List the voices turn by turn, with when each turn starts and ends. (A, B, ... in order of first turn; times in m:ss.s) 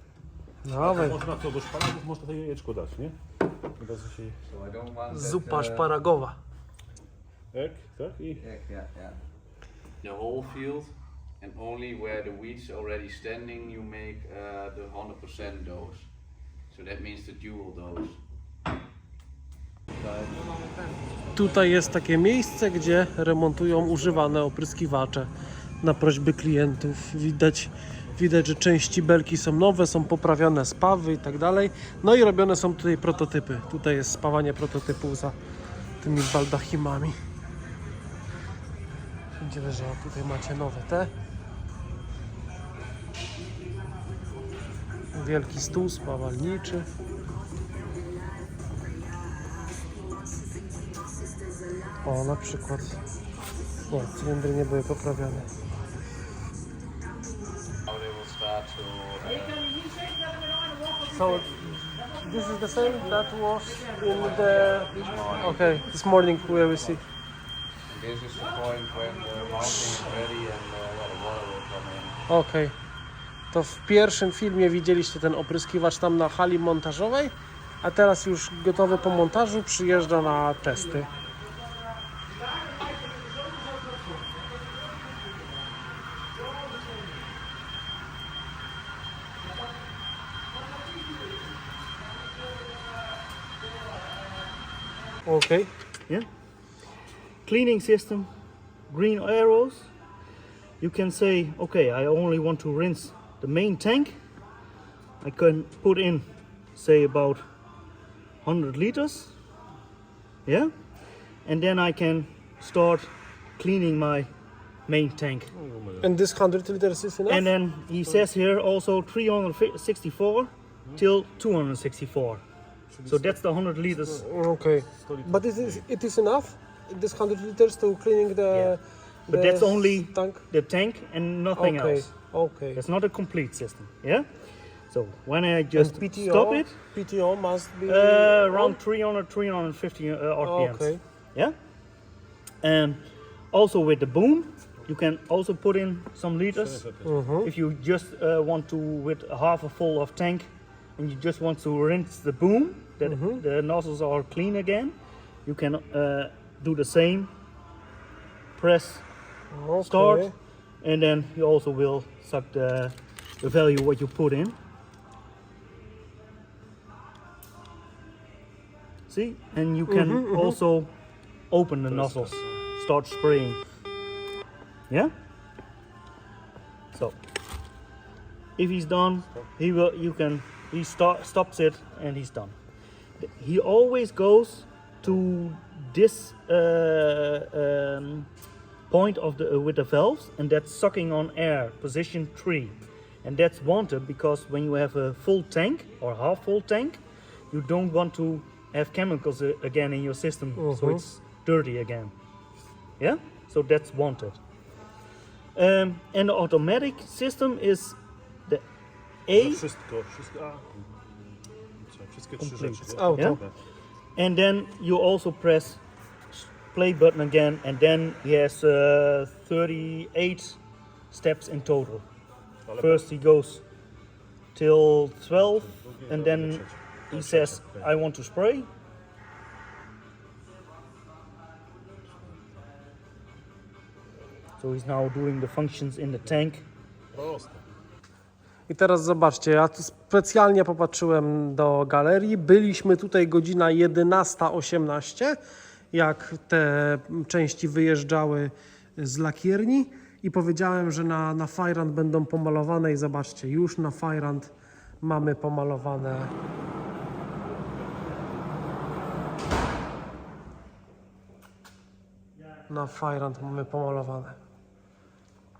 0:00.6-0:01.2 A
0:00.8-0:03.2 B
0:03.8-0:04.4 B
0:04.5-0:05.9 C
0:05.1-0:06.4 A
0:07.5-0:08.4 B
0:08.4-0:09.2 C
0:10.0-0:16.1 C
0:16.7-0:18.2 C
0:20.0-0:20.5 C
0:21.3-0:25.3 A
0:25.8-0:35.4 A
0:36.0-0:37.2 A
0:39.4-0:41.1 A
0:45.1-0:46.9 A
0:52.0-0:53.0 A
0:53.9-0:55.5 A
0:57.9-0:59.9 C
1:01.0-1:07.0 A
1:04.3-1:05.6 C
1:07.9-1:12.2 C
1:12.3-1:12.8 A
1:13.5-1:21.1 A
1:35.3-1:35.7 A
1:37.4-1:38.3 D
1:38.9-1:39.9 D
1:40.8-1:44.2 D
1:45.2-1:47.4 D
1:48.4-1:49.3 D
1:50.5-1:50.7 D
1:51.4-1:54.3 D
1:54.9-1:55.5 D
1:55.6-1:56.1 B
1:56.0-1:57.5 A
1:57.3-2:02.4 D
2:02.9-2:03.4 B
2:03.1-2:04.2 D
2:03.9-2:04.2 B
2:04.2-2:10.4 A
2:04.9-2:05.9 B
2:08.5-2:08.8 D
2:09.3-2:12.1 D
2:11.6-2:12.8 A
2:12.7-2:14.3 D
2:14.9-2:16.7 D
2:15.8-2:18.8 A
2:17.9-2:21.6 D
2:20.4-2:21.0 A
2:22.6-2:23.0 D
2:23.5-2:26.8 D
2:26.5-2:27.1 B
2:27.0-2:27.5 A
2:27.4-2:34.9 D
2:33.0-2:33.4 A
2:35.5-2:37.3 D
2:38.6-2:39.0 D
2:39.5-2:40.3 A
2:39.9-2:40.3 D
2:40.8-2:44.6 D
2:49.1-2:50.9 D
2:49.9-2:50.6 A
2:51.5-2:53.6 D
2:51.9-2:52.4 B
2:58.6-3:02.6 D
3:03.2-3:08.3 D
3:08.9-3:17.0 D
3:17.5-3:22.1 D
3:20.6-3:21.0 A
3:23.0-3:24.4 D
3:25.6-3:28.6 D
3:29.3-3:29.6 D
3:29.4-3:30.9 B
3:31.8-3:33.6 B
3:32.4-3:33.4 D
3:32.9-3:33.4 A
3:34.2-3:35.8 D
3:36.3-3:40.6 D
3:41.1-3:42.0 D
3:42.7-3:43.1 B
3:42.8-3:43.6 D
3:44.5-3:48.7 D
3:45.7-3:47.9 B
3:54.6-3:56.7 D
3:57.1-3:57.6 B
3:58.7-4:05.4 A
4:05.9-4:16.3 A
4:22.7-4:24.4 A